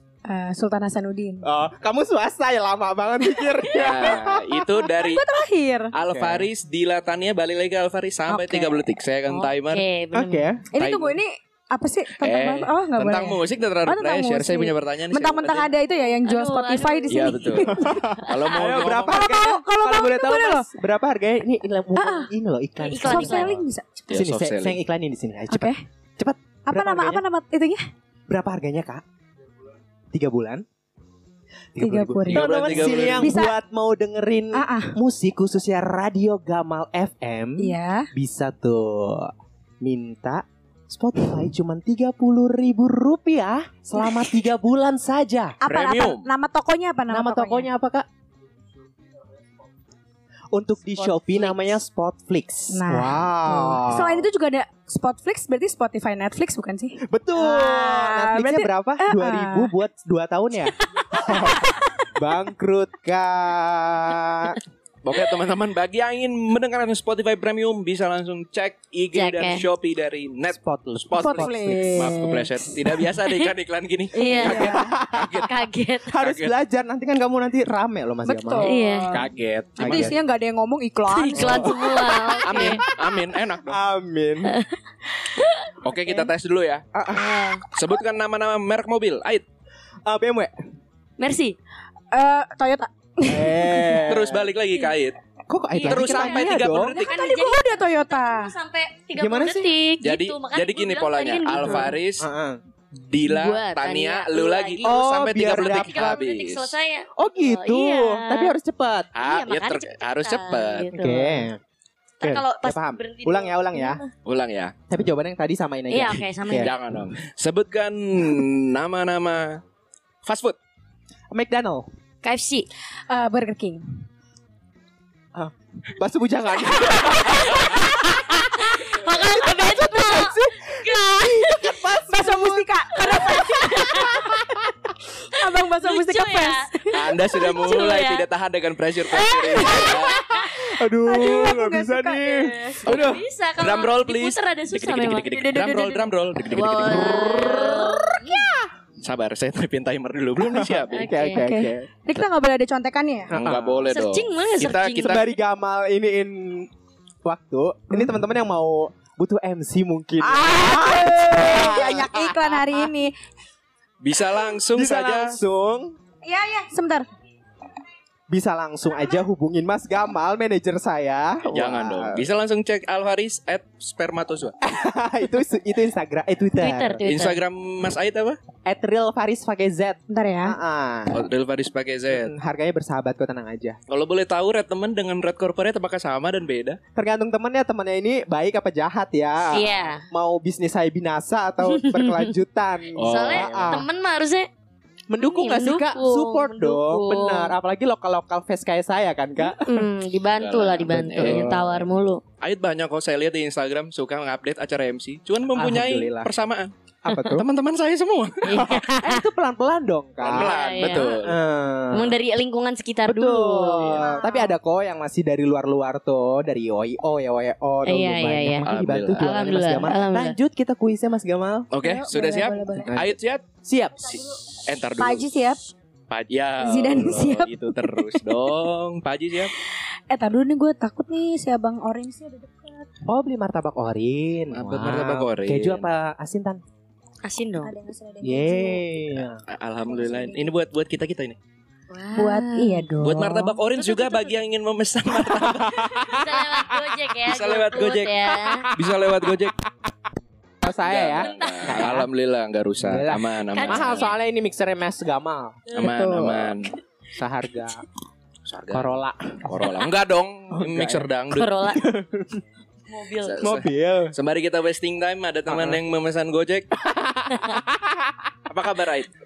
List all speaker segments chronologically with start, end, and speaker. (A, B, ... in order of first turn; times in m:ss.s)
0:00.2-0:01.4 A
0:01.4-0:04.8 B
0:03.7-0:05.3 C
0:05.0-0:05.9 A
0:05.9-0:09.8 C
0:06.0-0:06.5 B
0:08.3-0:08.8 A
0:09.3-0:10.5 D
0:10.1-0:10.6 B
0:10.7-0:18.1 A
0:10.8-0:11.2 C
0:12.2-0:15.7 C
0:15.9-0:18.6 D
0:17.1-0:19.3 C
0:17.7-0:23.4 B
0:19.1-0:20.7 A
0:22.0-0:22.3 A
0:22.8-0:23.5 D
0:23.0-0:24.0 A
0:23.2-0:24.8 C
0:24.1-0:27.2 B
0:25.5-0:25.8 A
0:26.7-0:27.8 A
0:28.3-0:29.0 B
0:30.1-0:30.6 B
0:31.7-0:45.6 B
0:31.8-0:33.5 A
0:32.2-0:33.2 C
0:34.5-0:35.0 A
0:37.6-0:38.1 A
0:45.6-0:47.7 A
0:45.6-0:46.3 C
0:47.1-0:48.0 B
0:50.5-0:54.3 B
0:51.0-0:51.8 D
0:52.7-0:59.7 A
0:57.0-1:04.6 B
1:01.1-1:01.8 A
1:05.0-1:15.5 C
1:09.1-1:09.6 D
1:10.5-1:12.1 B
1:11.2-1:12.6 A
1:13.2-1:13.5 D
1:14.1-1:16.1 D
1:14.1-1:15.0 A
1:14.6-1:15.5 B
1:16.1-1:18.7 B
1:16.2-1:16.5 C
1:18.2-1:19.3 A
1:18.6-1:19.2 D
1:19.1-1:20.1 C
1:19.8-1:20.2 B
1:19.8-1:21.8 A
1:21.1-1:22.8 D
1:21.4-1:22.8 B
1:22.4-1:23.8 C
1:23.6-1:24.5 B
1:24.4-1:25.7 D
1:25.8-1:26.8 C
1:26.9-1:27.4 B
1:27.1-1:27.6 D
1:27.7-1:29.4 C
1:30.0-1:30.5 B
1:31.2-1:31.6 D
1:32.1-1:34.1 A
1:33.2-1:34.5 B
1:34.1-1:35.2 C
1:35.5-1:37.0 B
1:35.7-1:42.0 D
1:35.9-1:37.1 C
1:37.0-1:38.5 A
1:39.1-1:39.7 B
1:40.0-1:42.2 C
1:41.5-1:42.6 B
1:43.0-1:46.7 C
1:43.2-1:48.5 D
1:44.8-1:46.2 B
1:47.2-1:49.1 B
1:49.1-1:50.9 C
1:49.2-1:51.5 D
1:50.9-1:51.6 B
1:52.2-1:54.0 B
1:52.2-1:54.1 D
1:54.2-1:54.7 C
1:54.9-1:56.7 B
1:55.9-1:56.7 D
1:56.6-1:59.6 C
2:00.2-2:00.6 C
2:01.3-2:01.9 B
2:02.2-2:02.7 D
2:03.1-2:03.8 A
2:05.3-2:08.4 B
2:06.9-2:11.7 D
2:09.5-2:12.7 B
2:12.1-2:14.2 A
2:12.9-2:14.4 D
2:14.0-2:14.6 B
2:15.2-2:17.0 A
2:15.3-2:18.2 D
2:16.9-2:20.3 C
2:19.2-2:22.8 A
2:19.6-2:23.2 B
2:19.6-2:20.5 D
2:22.8-2:25.4 D
2:22.8-2:27.8 C
2:25.2-2:26.1 A
2:26.5-2:28.5 D
2:27.2-2:28.7 B
2:29.0-2:31.1 C
2:30.4-2:31.9 B
2:30.9-2:31.5 D
2:31.4-2:33.3 A
2:33.3-2:33.9 B
2:33.3-2:35.2 C
2:33.9-2:35.2 D
2:35.0-2:36.7 B
2:37.2-2:42.1 B
2:40.2-2:43.1 A
2:44.0-2:45.4 C
2:44.7-2:46.0 B
2:46.2-2:47.0 A
2:48.3-2:52.2 B
2:51.5-2:54.5 C
2:54.6-2:57.0 B
2:56.6-2:57.4 D
2:57.0-2:58.4 C
2:58.6-3:01.2 B
3:00.1-3:00.6 A
3:01.1-3:02.3 C
3:02.1-3:03.8 B
3:03.9-3:06.8 C
3:07.0-3:13.8 B
3:09.5-3:10.0 D
3:11.6-3:12.3 D
3:13.0-3:13.8 C
3:13.0-3:14.5 D
3:15.1-3:19.8 B
3:15.2-3:17.5 D
3:19.4-3:22.2 D
3:20.3-3:21.7 C
3:21.2-3:21.7 B
3:22.4-3:28.9 C
3:25.5-3:26.3 B
3:27.0-3:27.4 B
3:28.4-3:29.2 D
3:29.0-3:30.5 B
3:30.2-3:31.4 C
3:30.3-3:31.2 D
3:31.2-3:32.2 B
3:31.9-3:34.0 D
3:33.0-3:41.7 B
3:34.0-3:34.5 A
3:37.8-3:38.7 D
3:38.6-3:39.3 C
3:39.2-3:40.4 D
3:41.7-3:43.4 C
3:41.8-3:43.0 A
3:42.8-3:44.2 B
3:44.0-3:45.3 C
3:45.0-3:45.6 A
3:46.1-3:49.5 C
3:46.6-3:48.4 A
3:50.1-3:52.9 A
3:53.0-3:56.6 B
3:54.5-3:55.9 C
3:57.2-3:57.7 D
3:57.6-3:59.2 A
3:58.2-3:59.4 B
3:59.4-4:01.4 C
3:59.8-4:00.5 A
4:01.9-4:02.9 D
4:02.2-4:03.6 A
4:03.0-4:06.1 C
4:03.7-4:04.4 D
4:05.2-4:06.7 B
4:05.9-4:08.7 D
4:07.2-4:09.6 C
4:10.6-4:12.1 B
4:10.7-4:14.1 C
4:11.1-4:11.9 D
4:12.8-4:15.6 B
4:13.5-4:14.1 D
4:15.7-4:16.5 A
4:15.7-4:16.7 C
4:17.1-4:17.8 B
4:18.4-4:21.5 C
4:18.7-4:19.5 B
4:20.5-4:21.0 B
4:21.3-4:21.9 D
4:21.8-4:22.4 B
4:22.9-4:23.4 D
4:23.2-4:26.7 C
4:23.4-4:24.1 B
4:25.5-4:25.8 B
4:26.8-4:28.2 B
4:27.3-4:27.6 D
4:28.5-4:29.1 C